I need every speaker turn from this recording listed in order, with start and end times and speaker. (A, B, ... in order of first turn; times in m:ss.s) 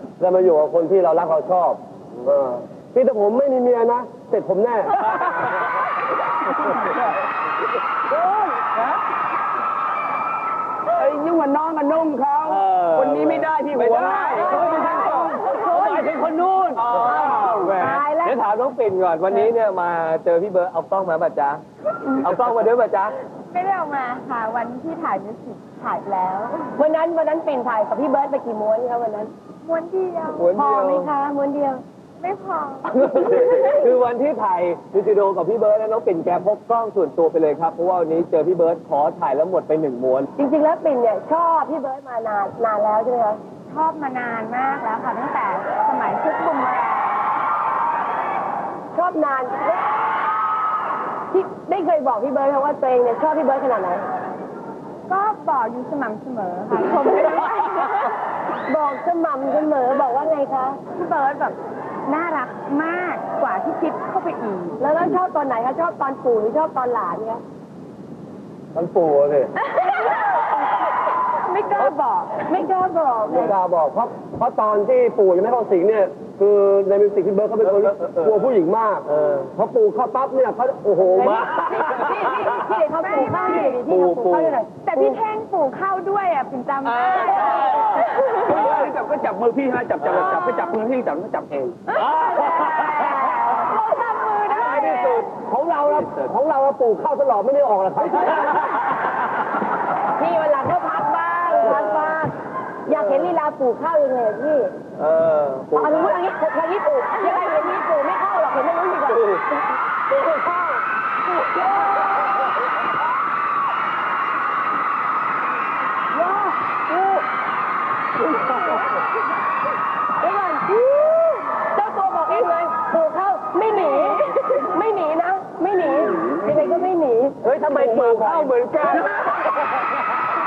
0:00.2-0:05.5 A
0:06.8-0:07.0 B
0:08.5-0:09.0 B
0:10.9-0:15.4 C
0:12.5-0:21.6 B
0:14.4-0:16.2 D
0:14.6-0:15.8 E
0:16.8-0:17.8 C
0:16.9-0:18.4 D
0:22.2-0:23.2 B
0:23.5-0:26.8 E
0:26.8-0:29.3 D
0:29.6-0:30.5 E
0:30.4-0:31.1 B
0:30.6-0:31.8 D
0:32.2-0:33.1 E
0:32.9-0:40.3 B
0:33.4-0:33.6 D
0:40.4-0:43.4 D
0:43.7-0:47.3 E
0:48.9-0:49.8 D
0:51.3-0:54.1 D
0:55.1-0:58.2 E
0:58.7-1:00.8 D
1:00.9-1:04.8 E
1:04.8-1:07.4 D
1:09.6-1:10.6 E
1:11.3-1:12.4 E
1:11.8-1:13.5 D
1:13.2-1:21.6 A
1:17.6-1:18.5 B
1:19.1-1:19.5 B
1:21.0-1:22.6 B
1:21.3-1:25.2 D
1:22.9-1:23.8 E
1:23.9-1:24.6 B
1:24.0-1:24.3 C
1:24.8-1:28.5 E
1:26.8-1:28.9 B
1:27.6-1:31.8 C
1:30.0-1:30.4 B
1:31.9-1:33.5 B
1:32.0-1:35.2 E
1:32.2-1:33.8 D
1:34.3-1:35.0 D
1:34.5-1:35.3 B
1:35.3-1:38.8 A
1:35.8-1:36.3 C
1:40.2-1:42.3 D
1:41.5-1:42.2 B
1:42.9-1:44.7 D
1:45.0-1:46.2 B
1:45.7-1:49.4 D
1:49.1-1:49.4 B
1:51.4-1:52.5 D
1:56.2-1:56.5 D
2:00.2-2:07.4 D
2:05.8-2:06.9 C
2:07.4-2:08.5 A
2:07.7-2:09.3 C
2:07.7-2:09.9 B